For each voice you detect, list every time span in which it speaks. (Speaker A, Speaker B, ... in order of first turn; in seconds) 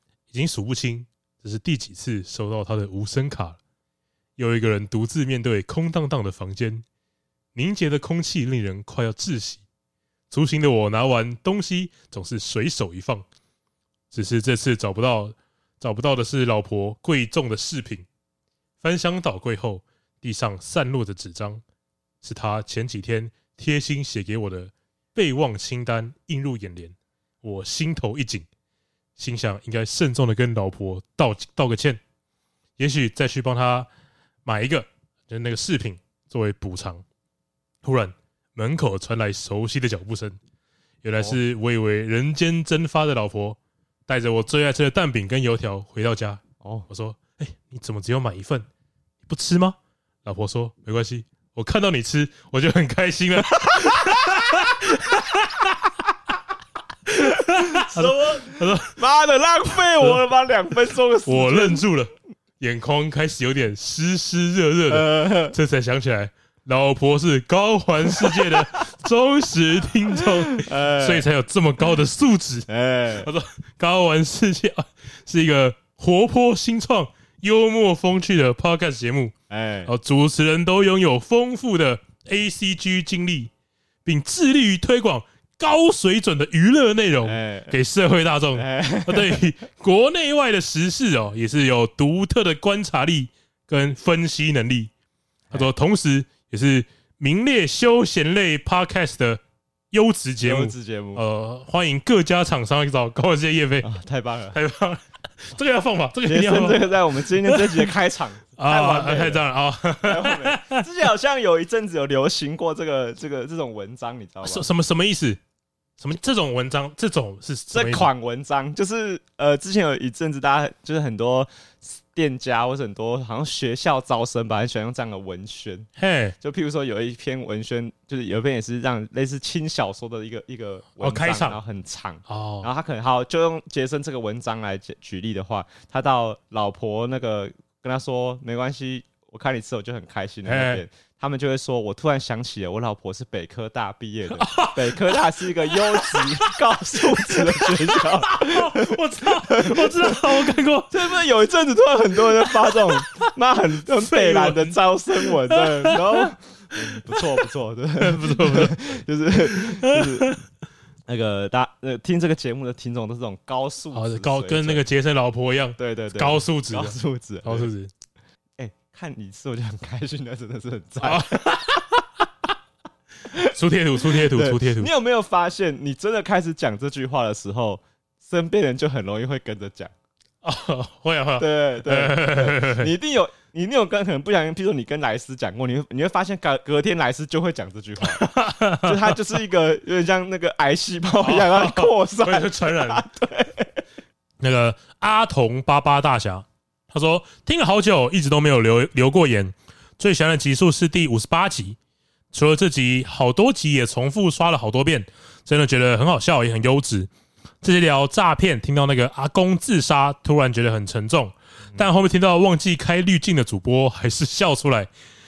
Speaker A: 0.3-3.6, 4.4-6.8, 7.5-9.6, 10.3-13.2, 14.1-18.1, 18.8-21.6, 22.2-28.5, 29.2-32.0, 32.8-33.9, 34.4-37.0, 37.8-40.4, 41.0-48.6, 49.3-55.9, 57.1-59.0, 61.2-79.3, 79.8-83.5, 84.0-94.9, 95.5-99.4, 99.9-103.9, 104.5-107.9, 108.6-110.8, 114.4-115.4, 116.0-118.1, 126.0-126.3, 131.0-131.6, 132.3-132.7, 140.4-140.8, 144.3-151.1, 152.4-153.3, 154.0-156.3, 156.9-157.4, 158.0-158.8, 159.4-160.4, 163.9-167.9, 171.0-172.0, 173.4-174.9, 180.4-182.9, 188.0-189.2, 191.2-193.0, 194.4-201.8, 202.3-207.1, 207.6-214.9
Speaker B: 46.6-46.9, 53.5-54.4, 57.5-61.8, 64.9-65.5, 68.2-68.5, 70.2-71.2, 72.7-73.3, 79.5-79.9, 87.2-87.8, 88.5-89.5, 100.4-101.2, 103.8-104.6, 106.3-109.4, 110.0-114.6, 117.7-125.9, 126.4-160.3, 161.1-164.8, 165.8-167.7, 168.6-171.6, 173.3-179.9, 181.4-193.8